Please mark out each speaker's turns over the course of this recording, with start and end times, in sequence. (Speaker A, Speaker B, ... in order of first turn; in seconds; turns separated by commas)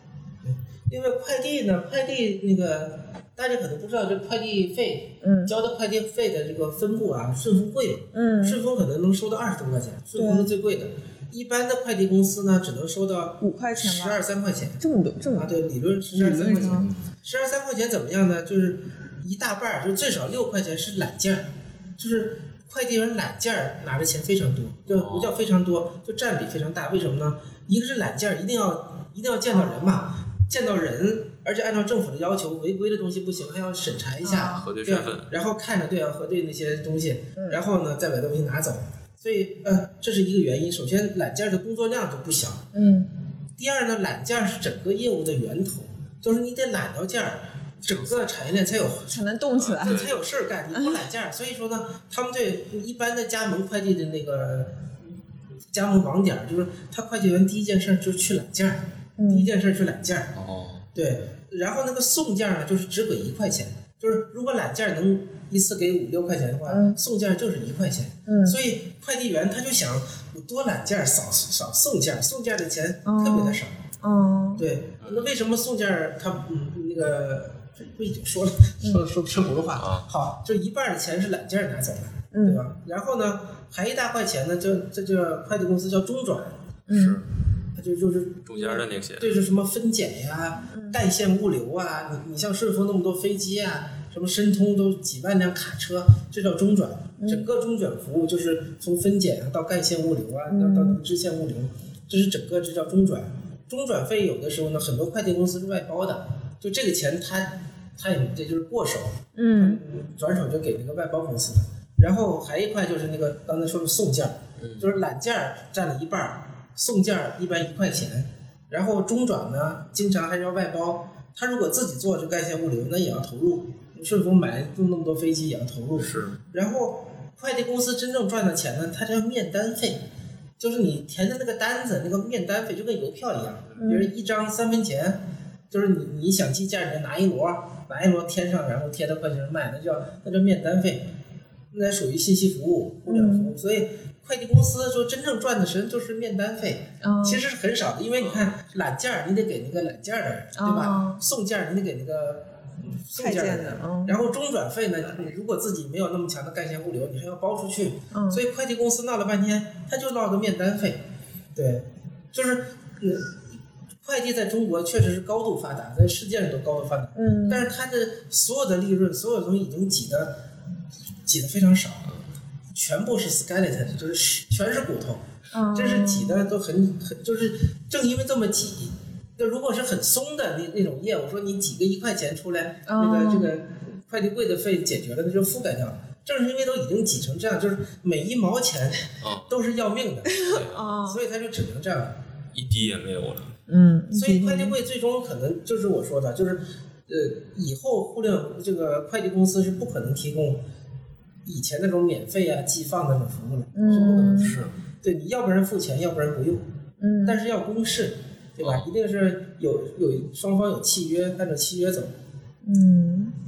Speaker A: 0.4-14.8, Speaker B: 5.2-5.5, Speaker B: 8.1-8.6, Speaker B: 10.2-10.5, Speaker B: 13.4-14.2, Speaker B: 14.8-15.5, Speaker A: 15.3-42.7, Speaker B: 16.1-16.9, Speaker C: 16.5-17.0, Speaker C: 24.9-25.4, Speaker B: 29.5-30.0, Speaker B: 34.2-34.7, Speaker C: 34.4-35.3, Speaker B: 37.4-37.6, Speaker B: 42.7-43.1, Speaker A: 43.6-49.2, Speaker C: 47.9-48.5, Speaker B: 49.1-50.1, Speaker C: 49.6-50.3, Speaker A: 49.8-54.9, Speaker B: 50.7-51.0, Speaker A: 55.7-60.4, Speaker B: 59.2-59.5, Speaker C: 60.4-60.9, Speaker A: 61.0-73.8, Speaker B: 66.7-67.0, Speaker B: 68.3-68.6, Speaker B: 73.0-74.7, Speaker A: 74.6-86.6, Speaker C: 75.0-75.3, Speaker C: 79.7-80.1, Speaker B: 82.3-82.6, Speaker B: 86.9-87.2, Speaker C: 86.9-87.3, Speaker A: 87.8-130.1, Speaker C: 88.5-89.4, Speaker B: 90.7-91.0, Speaker B: 97.2-97.5, Speaker B: 100.5-101.0, Speaker B: 109.4-109.8, Speaker C: 114.6-114.9, Speaker C: 126.0-126.4, Speaker A: 130.6-141.1, Speaker B: 133.8-134.1, Speaker A: 141.7-161.0, Speaker B: 143.1-143.5, Speaker B: 147.0-147.4, Speaker C: 148.2-148.5, Speaker B: 150.6-151.2, Speaker B: 153.2-154.2, Speaker B: 158.1-158.4, Speaker A: 161.6-163.4, Speaker A: 164.0-170.4, Speaker B: 167.2-167.7, Speaker A: 171.3-172.1, Speaker A: 172.7-192.2, Speaker B: 175.5-176.5, Speaker B: 182.9-183.5, Speaker C: 189.2-189.6, Speaker B: 190.3-191.2, Speaker C: 190.4-190.9, Speaker C: 192.5-193.5, Speaker B: 193.7-194.8, Speaker A: 194.1-200.6, Speaker A: 201.4-206.7, Speaker B: 203.7-204.6, Speaker C: 203.9-204.7, Speaker B: 207.0-207.4, Speaker A: 207.2-212.1, Speaker C: 208.6-208.9, Speaker B: 212.6-213.3